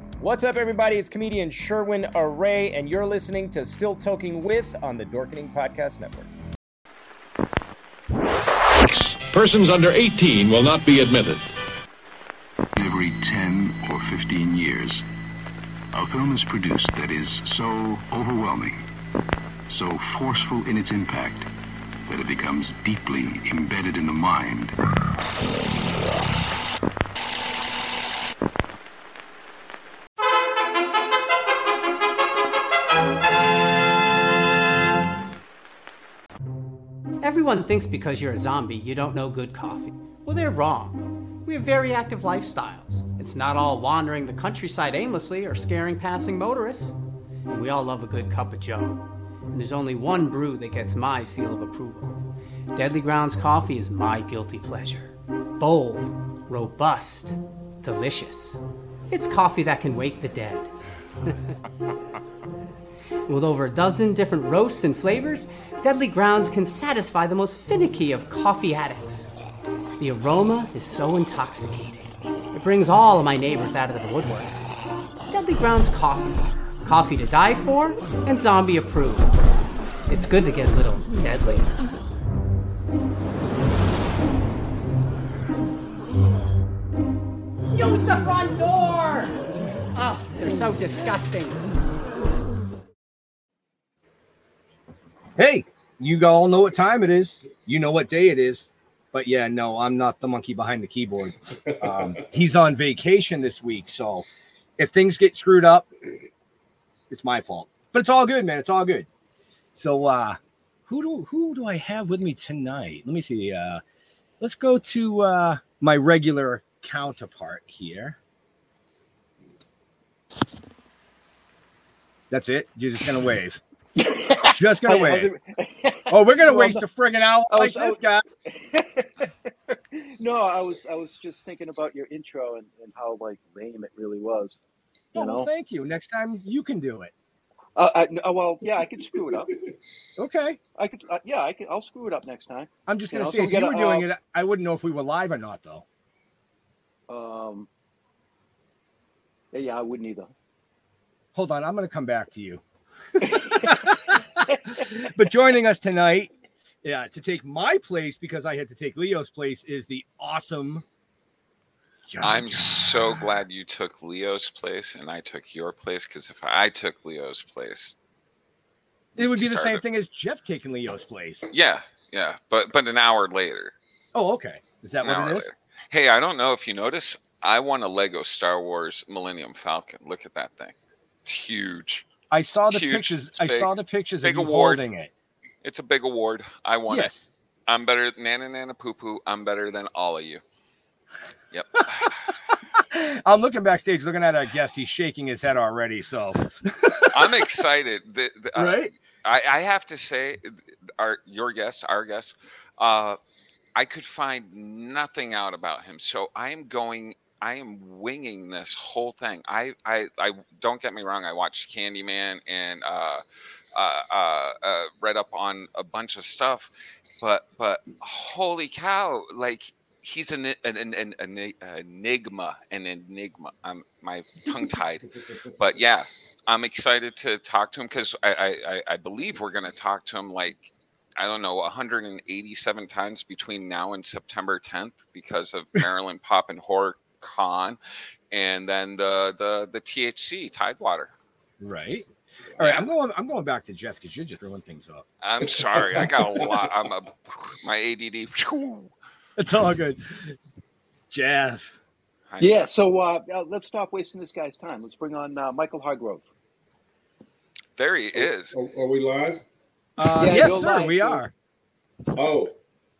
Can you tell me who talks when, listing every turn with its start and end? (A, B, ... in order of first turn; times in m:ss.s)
0:00.2-0:06.3 A
0:08.9-0:11.5 B
0:12.8-0:15.0 C
0:15.9-0:18.8 C
0:19.7-0:21.5 C
0:22.1-0:24.8 C
0:37.2-0:47.0 D
0:47.5-1:00.7 D
1:03.3-1:09.3 D
1:10.0-1:14.5 D
1:15.3-1:19.3 D
1:20.1-1:21.8 D
1:27.7-1:29.3 E
1:30.0-1:31.7 D
1:35.4-1:44.3 E
1:41.7-1:42.2 F
1:44.8-1:45.9 E
1:47.1-1:49.1 E
1:49.7-1:53.8 E
1:54.4-1:58.2 E
2:02.3-2:03.6 E
2:04.0-2:06.9 G
2:04.5-2:05.3 E
2:06.1-2:08.2 E
2:07.5-2:14.6 G
2:15.1-2:17.1 E
2:15.2-2:15.5 G
2:17.8-2:19.5 G
2:19.2-2:19.8 F
2:20.2-2:20.6 E
2:20.8-2:24.1 G
2:22.9-2:25.8 E
2:27.1-2:27.7 G
2:29.5-2:30.3 G
2:31.3-2:32.6 E
2:33.2-2:33.8 G
2:33.5-2:36.3 E
2:36.8-2:40.8 E
2:42.1-2:43.4 E
2:42.2-2:48.0 H
2:49.2-2:49.8 H
2:49.2-2:51.5 E
2:51.5-2:53.7 H
2:54.1-2:55.5 E
2:55.0-3:00.8 H
3:01.3-3:02.1 H
3:02.3-3:05.1 E
3:02.7-3:04.8 H
3:05.6-3:07.1 H
3:06.9-3:07.2 E
3:07.7-3:10.4 H
3:11.5-3:12.3 H
3:12.9-3:17.5 E
3:17.0-3:23.2 H
3:18.6-3:18.9 E
3:23.8-3:33.2 H
3:33.8-3:57.8 H
3:58.3-4:01.1 H
4:01.6-4:02.1 E
4:02.6-4:05.0 E
4:02.6-4:02.9 H
4:05.2-4:08.9 H
4:06.0-4:06.6 F
4:09.4-4:10.3 E
4:11.1-4:11.7 E
4:12.3-4:12.6 H
4:12.4-4:16.2 G
4:17.8-4:18.6 H
4:18.2-4:19.4 F
4:20.0-4:21.3 E
4:20.0-4:21.2 G
4:22.2-4:22.6 F